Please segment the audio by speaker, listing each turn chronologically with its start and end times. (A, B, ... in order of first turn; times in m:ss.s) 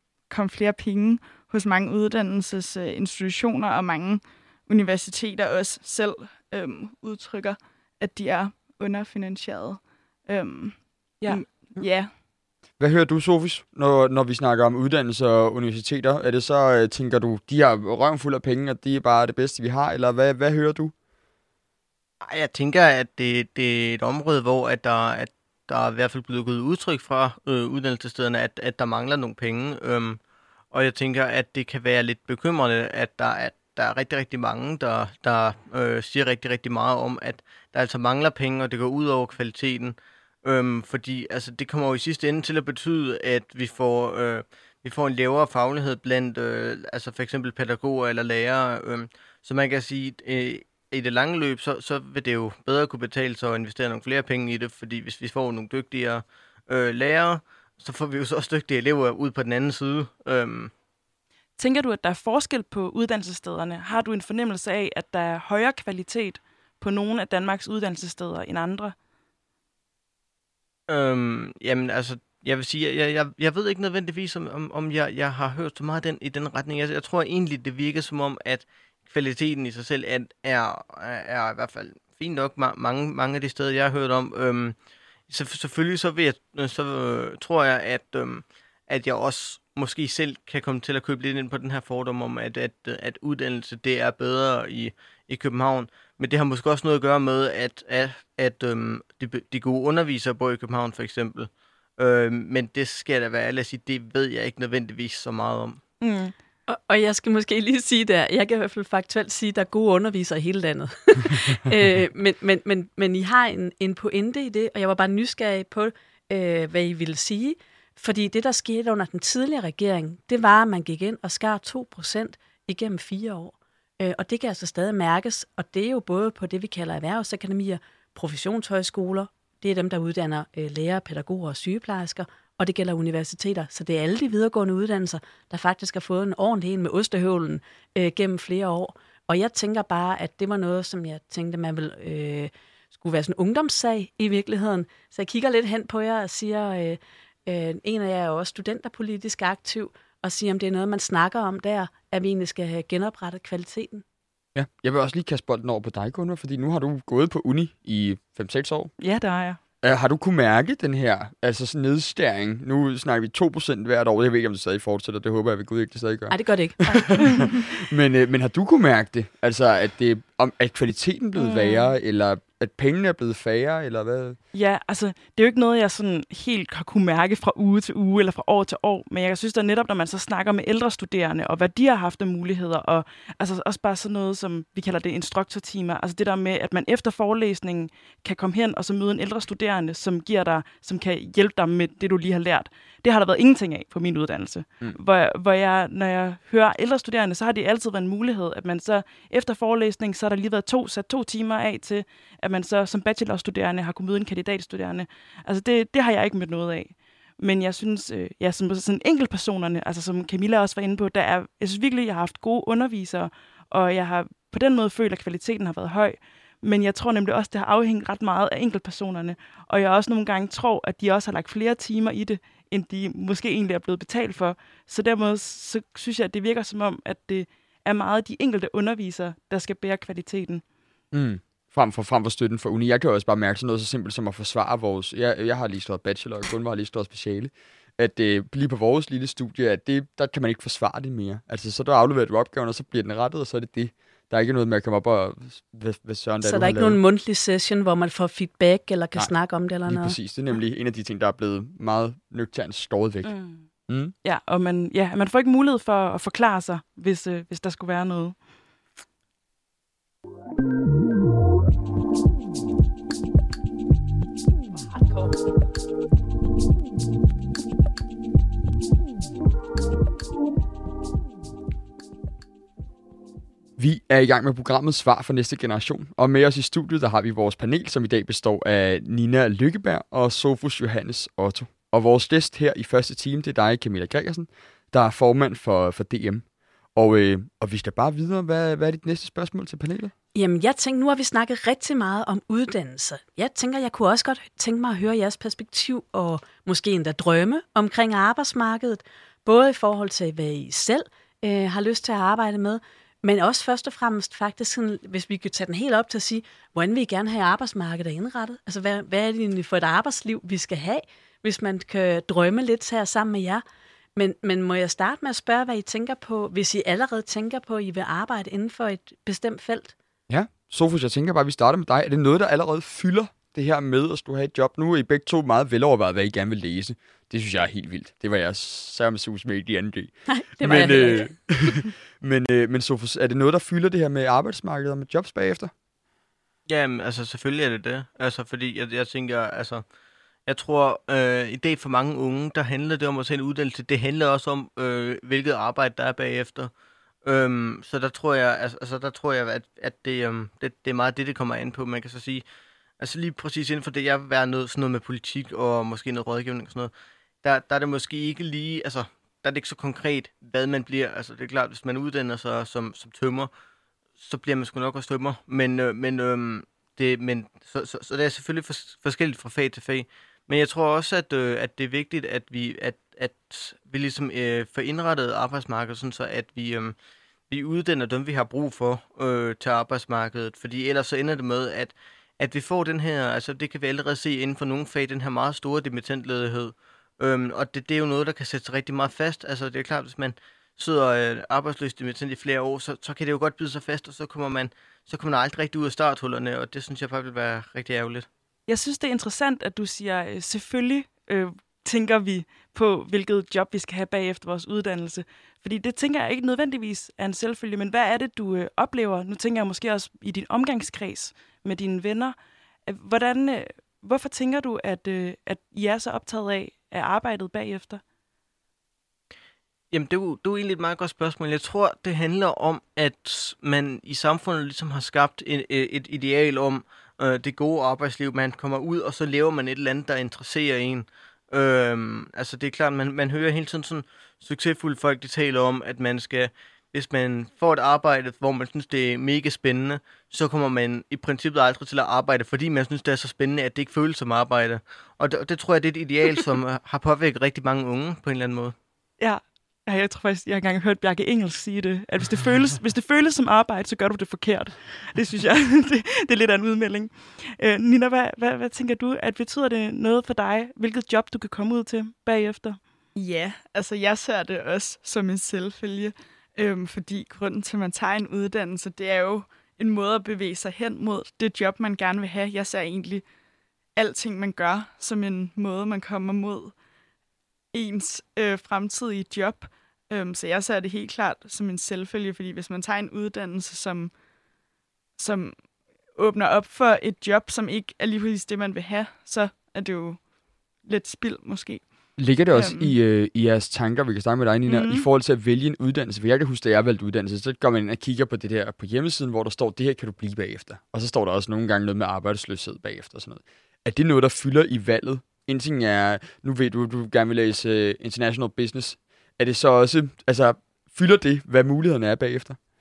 0:00.3-0:12.1 A
0:12.8-0:20.9 B
0:22.2-0:30.2 C
0:30.7-1:00.7 C
1:01.6-1:09.0 D
1:10.9-1:24.8 C
1:25.3-1:45.8 C
1:46.0-1:46.3 D
1:46.7-2:34.0 E
2:34.6-2:38.9 B
2:39.0-2:39.6 D
2:39.8-2:54.4 B
2:46.3-2:47.4 E
2:51.4-2:51.9 D
2:54.5-3:50.6 D
3:51.1-4:07.0 B
4:06.4-4:10.2 E
4:09.9-4:13.4 B
4:13.2-4:13.7 D
4:13.9-4:14.1 B
4:14.2-4:18.4 D
4:33.8-4:46.4 B
4:47.0-4:50.1 B
4:50.3-5:13.6 E
5:14.2-5:20.0 E
5:20.3-5:35.7 B
5:30.3-5:31.3 E
5:36.7-5:39.8 C
5:40.5-5:46.7 C
5:47.2-5:52.4 C
5:53.0-5:56.9 C
5:57.4-6:03.5 C
6:04.2-6:17.0 C
6:17.5-6:38.3 C
6:38.7-6:58.0 D
6:59.9-7:28.7 C
7:29.2-7:42.8 D
7:43.2-7:53.2 A
7:54.0-7:56.7 A
7:57.7-8:04.1 A
8:05.2-8:10.3 A
8:10.8-8:11.8 A
8:12.2-8:32.6 B
8:12.5-8:12.9 A
8:14.7-8:15.1 A